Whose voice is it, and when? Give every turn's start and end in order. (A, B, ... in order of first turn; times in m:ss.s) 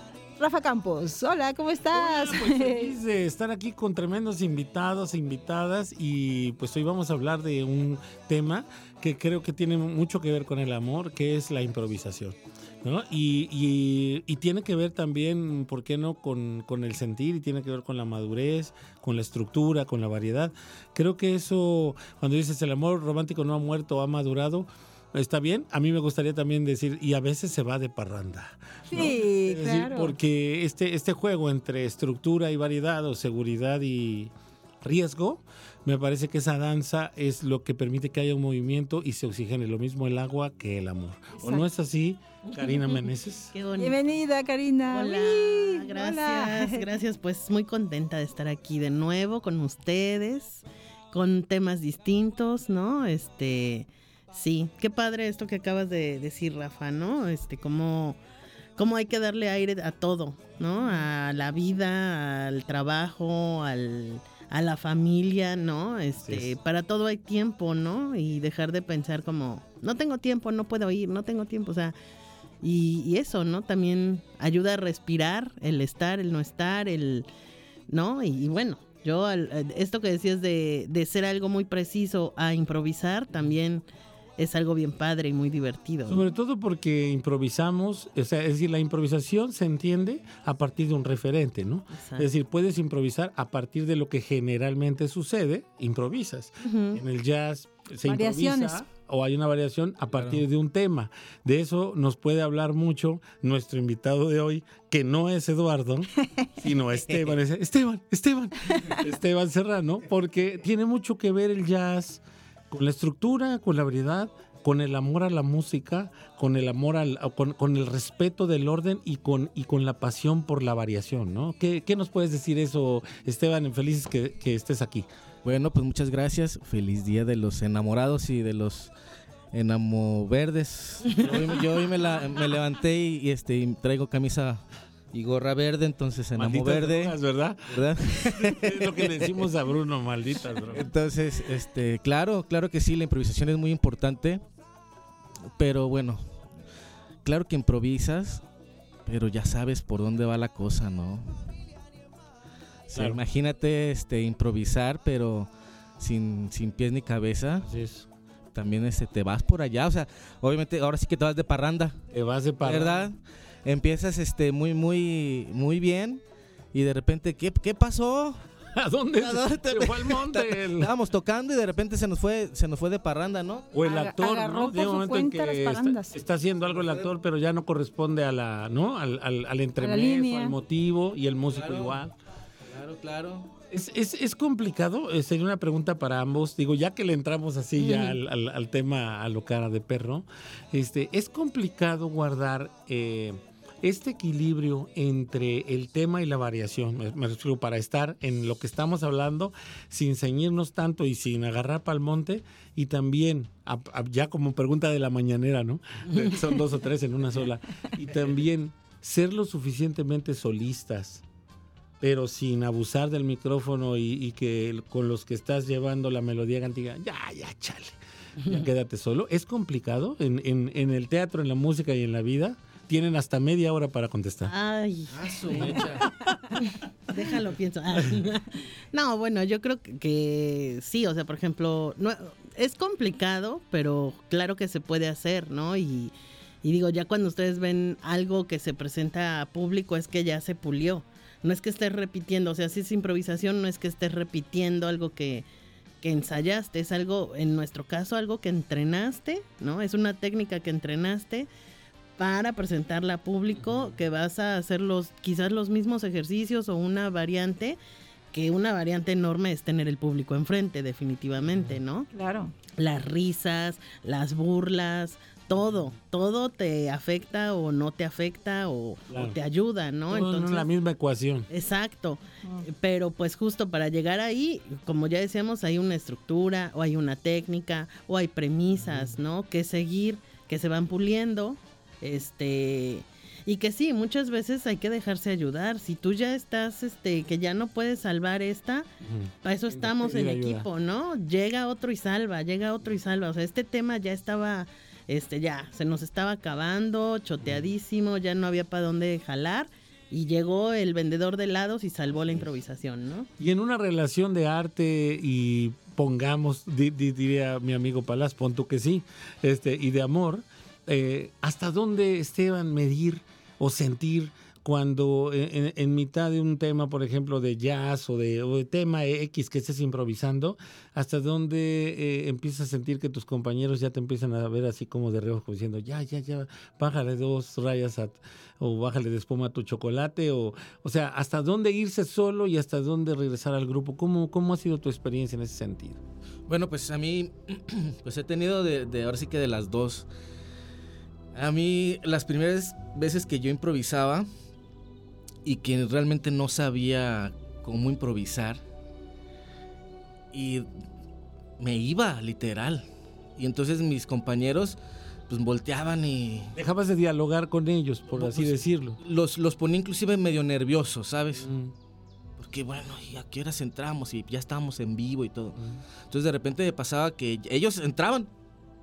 0:00.4-0:02.9 A
0:01.9-0:34.3 B
0:28.9-0:30.2 A
0:34.8-0:43.5 B
0:41.3-0:41.7 A
0:43.5-0:44.0 C
0:43.7-0:46.9 A
0:44.9-0:58.2 C
0:58.8-1:12.0 C
1:06.2-1:06.5 B
1:12.6-1:17.3 C
1:17.9-1:23.8 C
1:24.4-1:26.2 C
1:26.0-1:46.1 B
1:31.9-1:32.3 C
1:36.6-1:37.0 C
1:38.0-1:38.9 A
1:40.1-1:40.4 D
1:46.6-2:05.1 B
2:05.4-2:08.9 D
2:09.5-2:17.2 D
2:16.4-2:20.9 B
2:17.7-2:19.3 D
2:20.7-2:24.4 D
2:25.6-2:26.3 D
2:27.2-2:28.4 D
2:29.0-2:31.5 D
2:32.9-2:35.5 D
2:32.9-2:33.2 B
2:36.0-2:37.7 D
2:37.6-2:38.0 B
2:38.5-2:42.0 D
2:42.1-2:43.1 B
2:42.6-2:46.2 D
2:46.7-2:48.4 D
2:48.8-2:50.9 B
2:49.2-2:53.7 D
2:53.7-3:02.1 B
2:53.8-2:56.1 A
2:56.6-2:57.1 D
2:59.8-3:00.5 A
3:01.5-3:02.0 D
3:02.7-3:03.5 D
3:03.7-3:31.2 B
3:32.0-3:44.5 B
3:44.5-3:45.1 C
3:45.1-3:46.0 D
3:47.1-4:05.4 C
4:06.0-4:11.5 C
4:12.2-4:17.8 C
4:13.5-4:13.9 B
4:18.3-4:22.1 C
4:22.1-4:22.5 A
4:22.8-4:30.7 C
4:29.1-4:29.4 B
4:30.1-4:31.5 B
4:31.5-4:48.9 C
4:38.8-4:39.1 B
4:49.0-4:50.7 B
4:49.4-5:03.3 C
5:03.4-5:36.0 B
5:36.5-5:40.1 D
5:41.3-5:44.3 D
5:45.4-5:48.6 D
5:50.3-5:50.7 D
5:51.6-5:54.8 D
5:55.3-5:56.5 D
5:56.6-5:59.0 B
5:58.1-6:01.5 D
6:01.4-6:01.7 B
6:02.4-6:05.6 D
6:06.1-6:08.3 D